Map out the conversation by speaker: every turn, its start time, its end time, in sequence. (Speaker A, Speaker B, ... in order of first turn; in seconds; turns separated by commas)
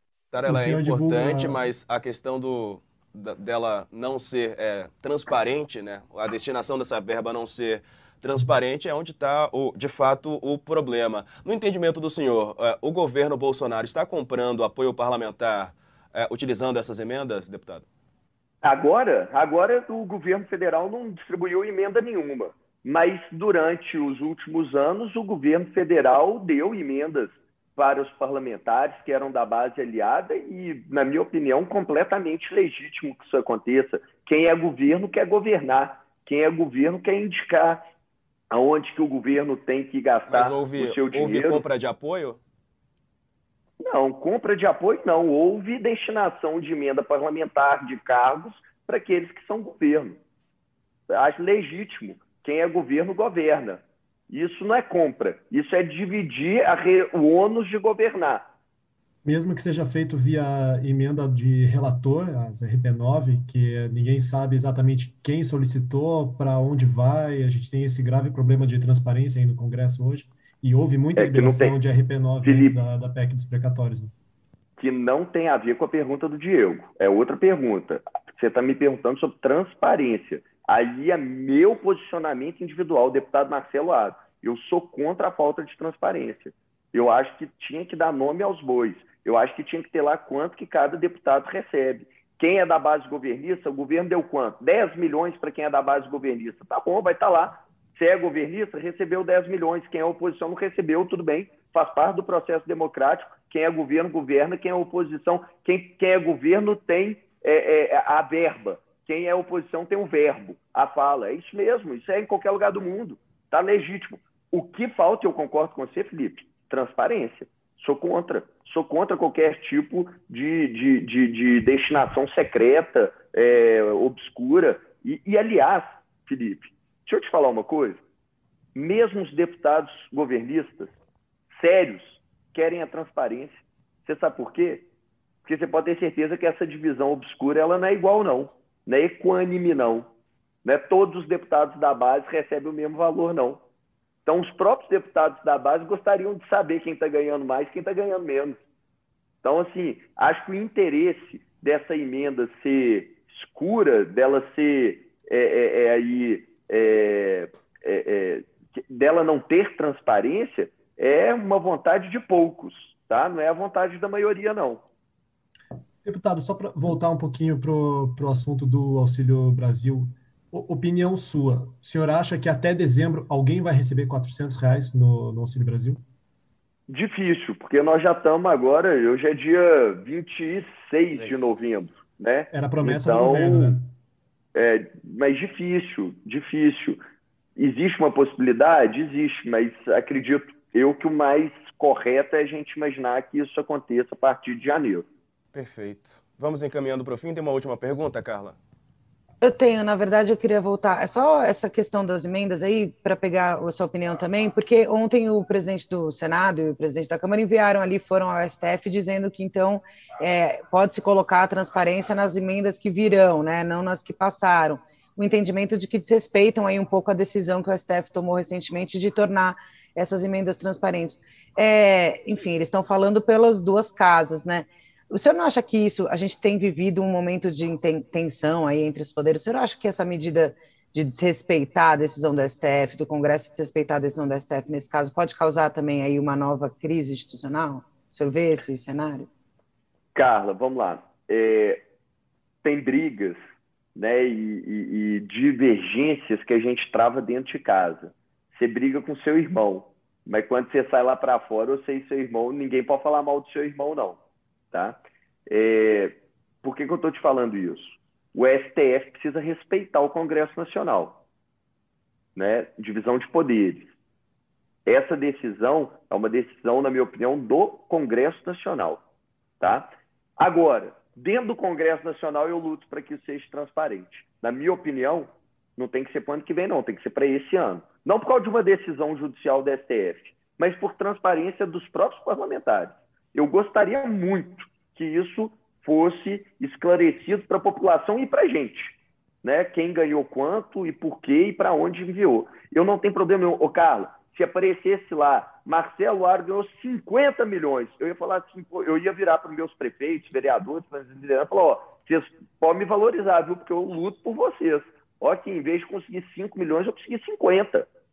Speaker A: 0.3-17.9, Speaker B: 0.4-1.6, Speaker C: 18.6-37.8, Speaker C: 38.5-41.6, Speaker A: 40.3-42.4, Speaker C: 43.8-50.2, Speaker C: 51.1-58.5, Speaker B: 59.2-74.1, Speaker C: 71.2-71.8, Speaker C: 72.4-72.8, Speaker C: 74.8-128.0, Speaker C: 128.8-130.9, Speaker C: 131.5-134.9, Speaker C: 135.4-140.1, Speaker C: 140.6-143.6, Speaker C: 144.2-148.6, Speaker C: 149.4-164.8, Speaker B: 166.0-176.0, Speaker C: 176.9-183.7, Speaker B: 182.5-183.9, Speaker C: 184.5-187.0, Speaker C: 187.6-195.1, Speaker A: 195.5-198.6, Speaker D: 199.4-239.3, Speaker C: 240.1-241.8, Speaker C: 242.6-243.4, Speaker C: 244.0-254.2, Speaker C: 254.7-261.2, Speaker C: 262.4-263.9, Speaker C: 264.9-269.0, Speaker C: 269.6-307.9